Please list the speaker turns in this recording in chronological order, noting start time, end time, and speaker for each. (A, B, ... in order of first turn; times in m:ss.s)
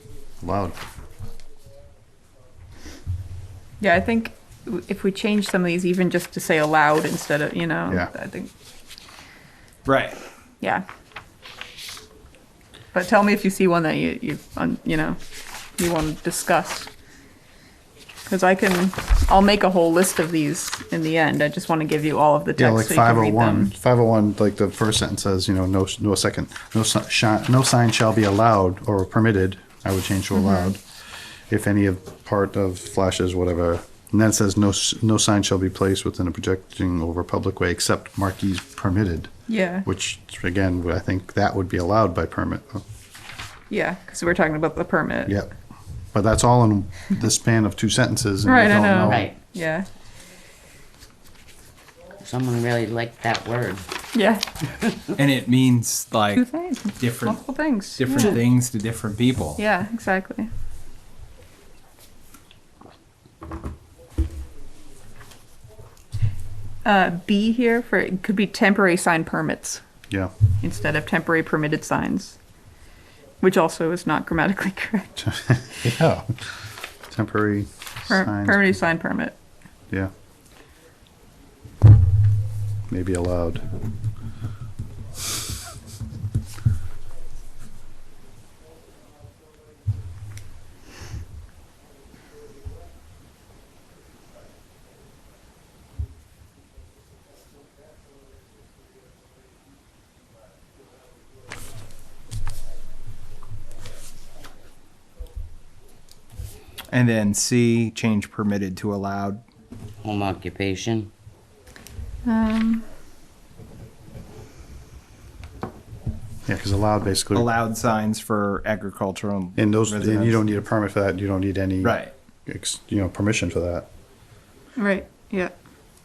0:00.4-0:00.8 A
0:03.8-0:08.5 B
0:09.8-0:10.2 C
0:12.9-0:15.2 B
0:15.8-0:16.9 B
0:18.2-0:23.7 B
0:22.6-0:42.8 A
0:30.3-0:30.7 B
0:39.5-0:39.8 B
0:43.7-0:45.4 B
0:45.2-0:45.5 A
0:46.1-0:49.3 A
0:48.4-0:49.9 B
0:49.0-0:49.4 D
0:52.2-0:53.8 D
0:54.1-0:54.4 B
0:55.1-0:56.4 C
0:56.3-0:58.4 B
0:57.0-0:57.4 C
0:57.9-0:59.6 C
0:59.6-1:00.5 B
1:06.8-1:09.8 B
1:10.6-1:12.4 B
1:13.4-1:15.2 B
1:15.2-1:18.8 A
1:18.1-1:19.4 B
1:22.9-1:23.6 A
1:46.9-1:49.4 C
1:50.0-1:51.1 D
1:52.2-1:52.8 B
1:56.4-1:57.5 A
1:57.3-2:00.4 C
1:59.6-2:03.9 A
2:01.8-2:02.1 C
2:04.8-2:05.5 B